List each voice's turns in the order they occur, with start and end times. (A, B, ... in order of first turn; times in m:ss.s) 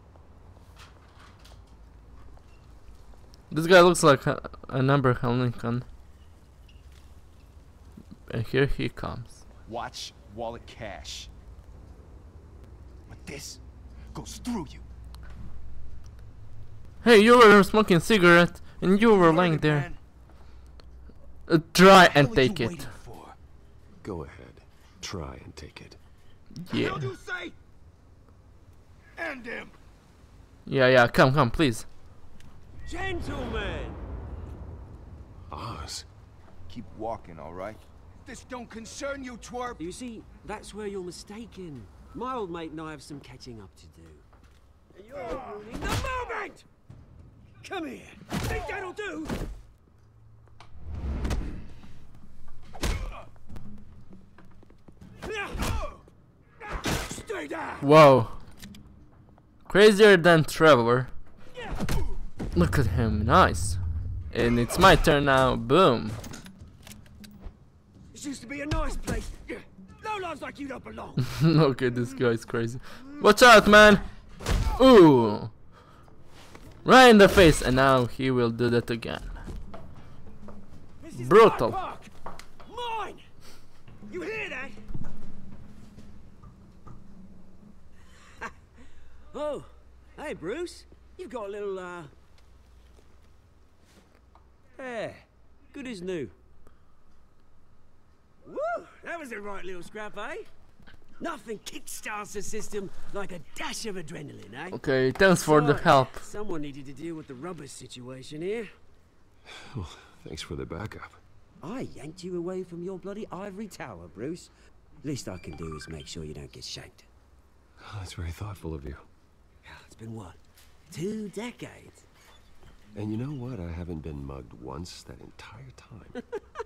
0:03.5-0:05.8 A
0:08.3-0:09.4 A
0:09.6-0:11.3 B
0:13.1-0:13.6 B
0:14.1-0:14.8 B
0:17.0-0:19.9 A
0:19.0-0:20.0 B
0:21.5-0:22.9 A
0:22.1-0:23.4 B
0:24.0-0:26.0 C
0:26.6-0:27.1 A
0:26.7-0:27.6 B
0:29.2-0:29.7 B
0:30.6-0:31.9 A
0:32.8-0:34.0 D
0:35.5-0:36.1 C
0:36.7-0:39.8 B
0:39.8-0:44.2 D
0:44.9-0:46.6 D
0:45.2-0:45.6 B
0:47.6-0:49.3 D
0:55.2-0:55.8 D
0:56.7-0:57.9 D
0:57.8-0:58.4 A
0:59.7-1:01.1 A
1:02.5-1:06.2 A
1:08.1-1:11.4 D
1:11.2-1:14.0 A
1:14.7-1:15.6 A
1:16.8-1:19.4 A
1:21.0-1:22.1 D
1:21.1-1:21.7 A
1:22.6-1:23.2 D
1:24.1-1:24.8 D
1:29.3-1:32.1 D
1:34.8-1:36.3 D
1:38.4-1:40.5 D
1:41.2-1:44.8 D
1:44.7-1:46.2 A
1:45.4-1:48.7 D
1:49.5-1:51.2 C
1:51.6-1:54.5 D
1:55.0-1:57.1 D
1:57.8-1:59.1 C
1:59.6-2:00.4 D
2:00.9-2:02.1 D
2:02.9-2:06.2 C